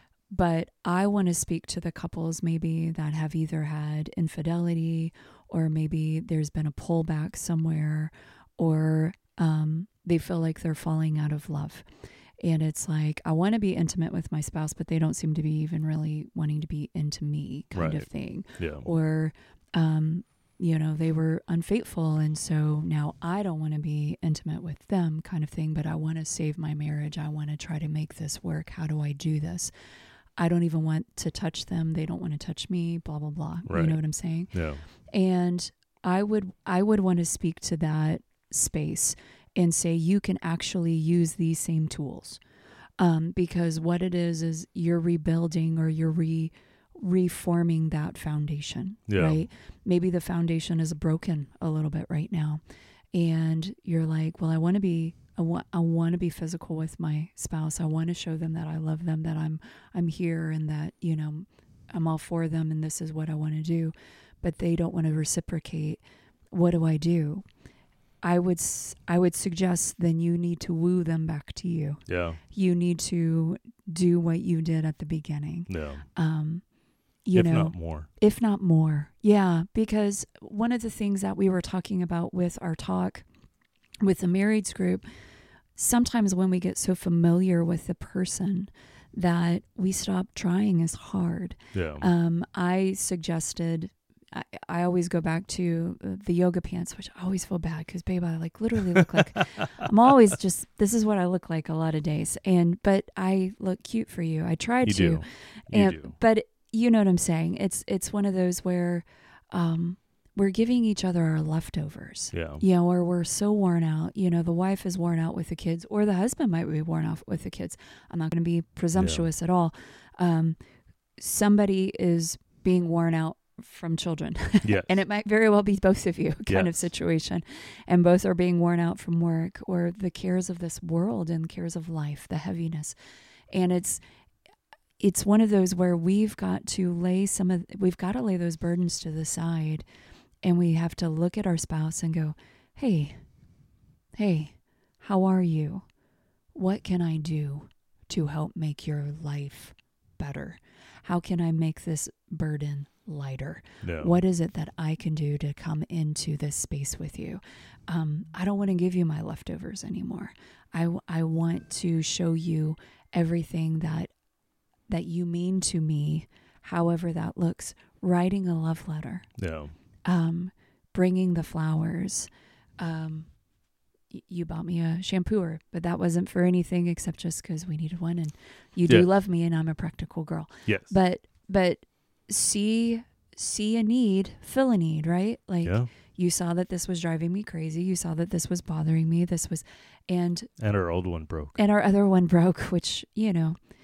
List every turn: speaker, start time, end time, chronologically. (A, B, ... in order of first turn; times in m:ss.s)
0:00.3-0:11.8 A
0:12.4-0:29.7 A
0:17.8-0:18.9 B
0:30.4-0:34.5 A
0:33.7-0:34.0 B
0:34.5-0:34.8 B
0:35.1-0:42.4 A
0:43.0-0:52.6 A
0:49.1-0:49.4 B
0:53.1-1:06.0 A
1:06.5-1:07.4 A
1:08.2-1:16.6 A
1:12.1-1:12.4 B
1:15.7-1:16.0 B
1:17.3-1:23.2 A
1:17.3-1:18.1 B
1:24.0-1:25.0 A
1:25.8-2:00.6 A
1:31.7-1:32.1 B
1:38.9-1:39.9 B
1:44.8-1:46.2 B
1:52.3-1:52.6 B
1:59.0-1:59.3 B
2:01.2-2:13.0 A
2:04.6-2:05.0 B
2:06.5-2:06.7 B
2:13.5-2:14.0 A
2:15.0-2:19.8 A
2:20.4-2:23.2 A
2:24.2-2:25.8 A
2:26.6-2:44.1 A
2:33.8-2:34.2 B
2:44.9-2:49.3 A
2:49.4-2:49.7 B
2:50.0-2:53.3 A
2:54.1-3:10.5 A
3:00.7-3:00.9 B
3:05.6-3:05.9 B
3:10.6-3:11.6 B
3:11.6-3:13.6 A